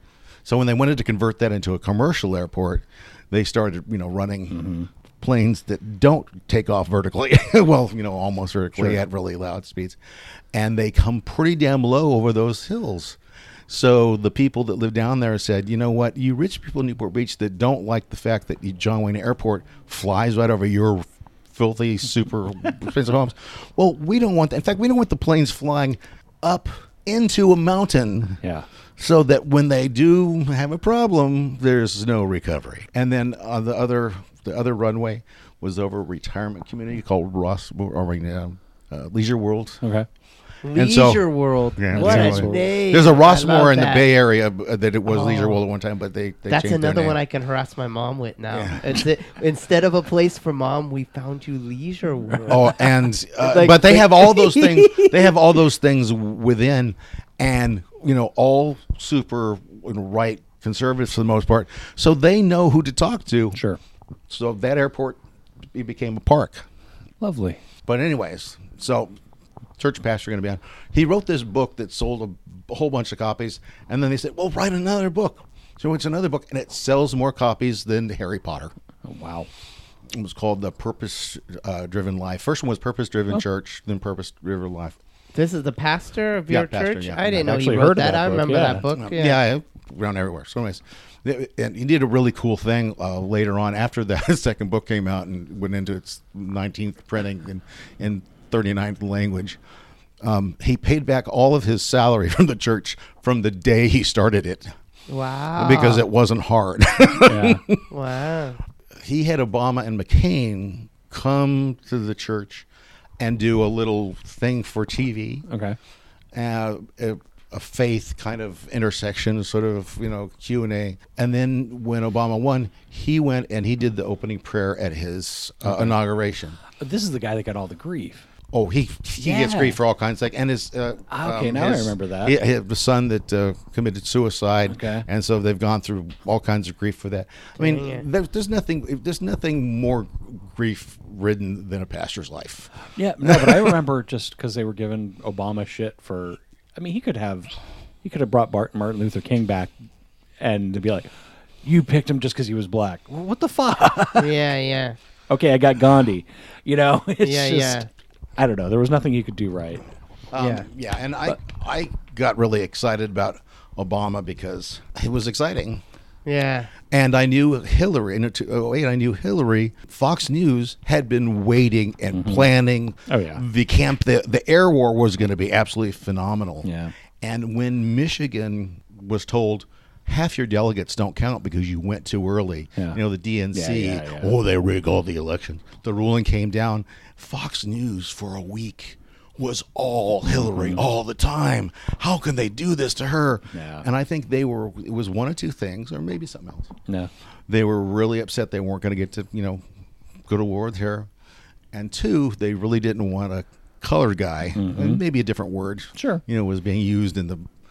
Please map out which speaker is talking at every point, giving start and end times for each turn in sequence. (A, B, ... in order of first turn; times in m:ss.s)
0:00.4-0:04.7 A
0:04.5-0:04.9 B
0:05.2-0:10.0 A
0:08.7-0:09.0 B
0:10.5-0:28.4 A
0:28.4-0:28.7 B
0:29.0-0:39.8 A
0:39.8-0:40.1 B
0:40.6-0:44.1 C
0:40.7-0:47.2 A
0:41.9-0:42.6 B
0:45.1-0:45.6 C
0:46.5-0:55.3 C
0:48.5-0:49.1 A
0:52.5-1:03.6 A
1:03.5-1:03.8 B
1:04.3-1:06.7 A
1:07.2-1:07.6 B
1:07.8-1:09.1 A
1:09.8-1:18.7 A
1:19.0-1:19.5 B
1:20.1-1:25.0 A
1:25.3-1:29.4 C
1:26.5-1:28.2 A
1:27.4-1:28.9 B
1:28.9-1:39.6 A
1:40.2-1:44.7 A
1:45.1-1:46.0 C
1:45.6-1:47.8 A
1:47.2-1:47.6 B
1:47.9-1:48.6 C
1:48.9-1:52.6 A
1:53.2-1:55.4 A
1:55.5-1:55.8 B
1:56.3-2:06.6 A
2:05.6-2:06.0 B
2:06.7-2:08.3 B
2:08.5-2:22.7 A
2:09.2-2:09.8 B
2:11.1-2:12.4 B
2:14.7-2:15.0 B
2:17.6-2:18.0 C
2:22.9-2:27.5 B
2:23.2-2:23.7 A
2:28.0-2:29.7 B
2:30.4-2:34.4 B
2:34.2-2:35.0 C
2:35.3-2:37.8 B
2:37.2-2:37.9 C
2:38.4-2:39.8 B
2:40.3-2:45.8 A
2:40.4-2:40.6 C
2:46.2-2:46.7 C
2:46.9-3:16.7 A
2:52.1-2:52.5 B
2:53.1-2:53.4 B
2:56.6-2:56.9 B
3:03.5-3:04.4 B
3:10.3-3:10.9 B
3:13.5-3:13.8 B
3:17.5-3:19.6 A
3:20.3-3:21.1 A
3:21.7-3:27.5 A
3:24.5-3:25.0 B
3:25.9-3:26.2 B